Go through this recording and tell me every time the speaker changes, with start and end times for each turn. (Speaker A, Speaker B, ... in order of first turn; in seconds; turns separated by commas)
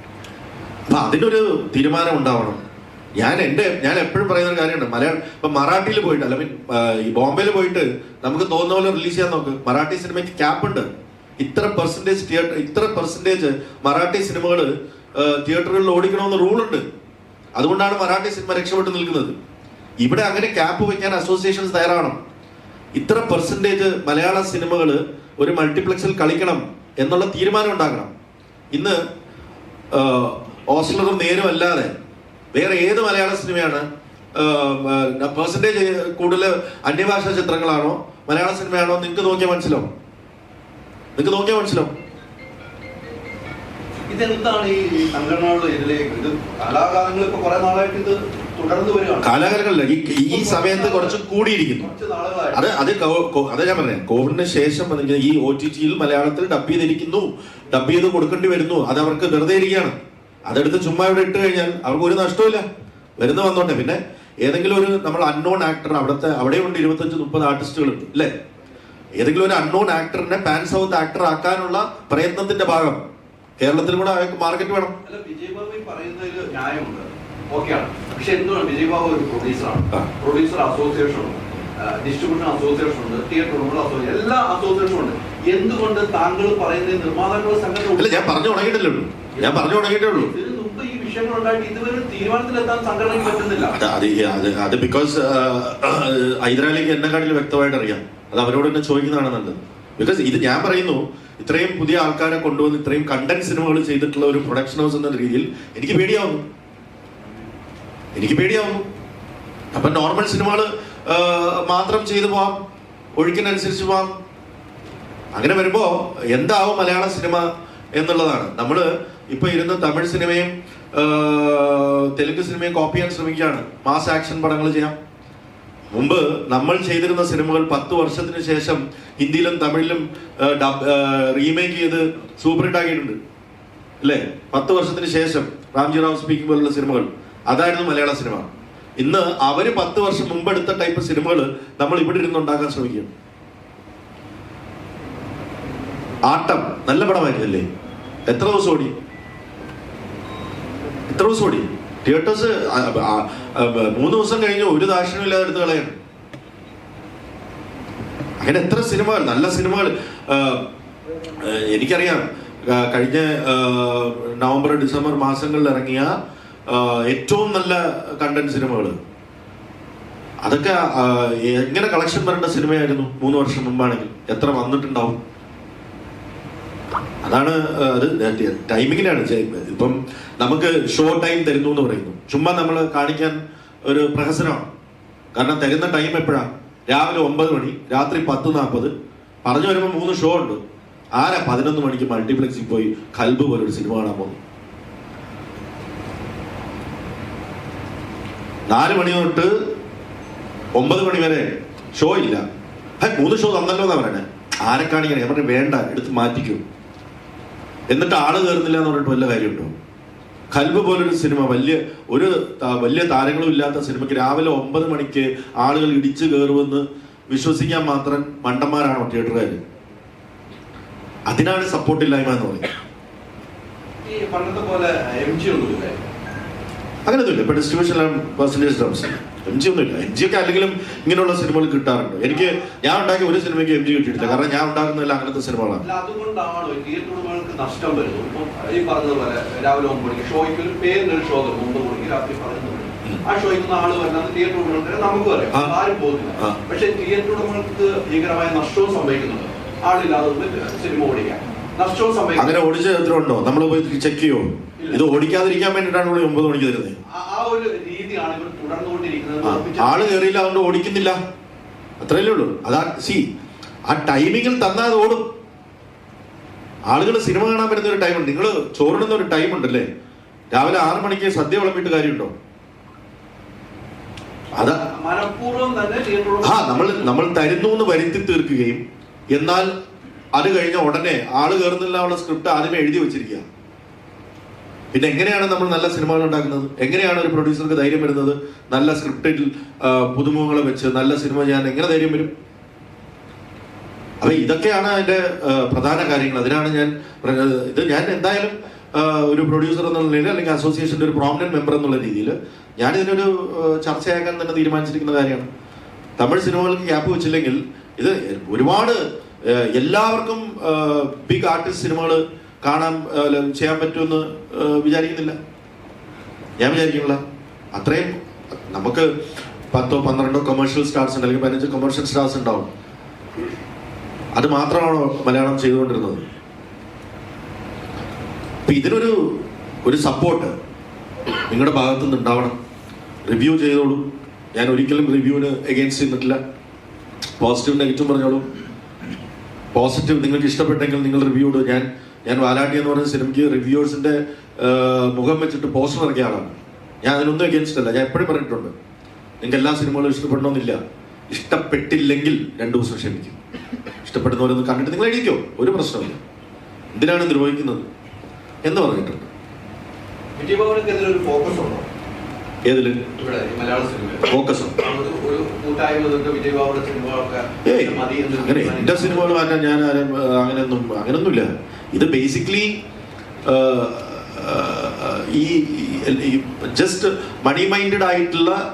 Speaker A: 0.9-2.6, Speaker A: 3.2-10.9, Speaker A: 11.4-16.8, Speaker A: 17.6-19.3, Speaker A: 20.0-22.2, Speaker A: 22.9-28.1, Speaker A: 28.7-29.0, Speaker A: 29.9-31.9, Speaker A: 32.5-39.9, Speaker A: 41.1-41.9, Speaker B: 44.1-49.4, Speaker A: 49.2-51.9, Speaker B: 50.3-51.2, Speaker B: 51.8-52.6, Speaker A: 52.5-59.9, Speaker A: 60.5-62.6, Speaker A: 63.2-68.3, Speaker A: 69.2-73.0, Speaker A: 73.6-74.9, Speaker B: 75.0-88.4, Speaker A: 88.0-90.3, Speaker B: 89.3-93.8, Speaker A: 93.8-106.4, Speaker A: 108.1-108.8, Speaker A: 109.7-112.5, Speaker A: 113.2-114.1, Speaker A: 115.3-124.9, Speaker A: 125.9-133.2, Speaker A: 134.0-143.1, Speaker A: 146.2-147.6, Speaker A: 148.3-148.9, Speaker A: 151.1-155.9, Speaker A: 158.4-160.7, Speaker A: 161.4-166.1, Speaker A: 166.7-168.9, Speaker A: 170.4-175.2, Speaker A: 177.2-184.7, Speaker A: 185.3-188.9, Speaker A: 189.4-190.6, Speaker A: 191.2-194.4, Speaker A: 198.7-199.5, Speaker A: 200.7-201.4, Speaker A: 201.9-202.4, Speaker A: 203.0-206.6, Speaker A: 207.9-209.7, Speaker A: 210.5-219.6, Speaker A: 221.3-222.7, Speaker B: 224.0-226.0, Speaker A: 227.1-235.8, Speaker B: 234.2-234.5, Speaker B: 235.8-252.6, Speaker A: 252.4-257.0, Speaker B: 257.1-260.2, Speaker A: 259.4-261.2, Speaker A: 262.0-263.2, Speaker A: 263.9-265.2, Speaker A: 266.9-269.9, Speaker A: 270.5-272.3, Speaker A: 274.5-274.8, Speaker B: 274.6-277.1, Speaker A: 276.4-279.7, Speaker A: 280.3-283.4, Speaker A: 284.9-292.3, Speaker A: 294.2-305.5, Speaker A: 306.2-315.4, Speaker A: 316.6-317.2, Speaker A: 317.7-319.1, Speaker A: 319.7-322.7, Speaker A: 324.3-326.2, Speaker A: 328.7-330.5, Speaker A: 331.5-332.5, Speaker A: 333.3-336.4, Speaker A: 337.4-338.4, Speaker A: 339.7-348.7, Speaker A: 349.4-350.8, Speaker A: 351.3-353.4, Speaker A: 354.0-356.2, Speaker A: 356.9-357.9, Speaker A: 358.6-359.3, Speaker B: 360.4-361.9, Speaker A: 362.6-363.1, Speaker B: 363.2-369.4, Speaker A: 364.3-364.7, Speaker A: 367.6-372.8, Speaker A: 373.4-378.6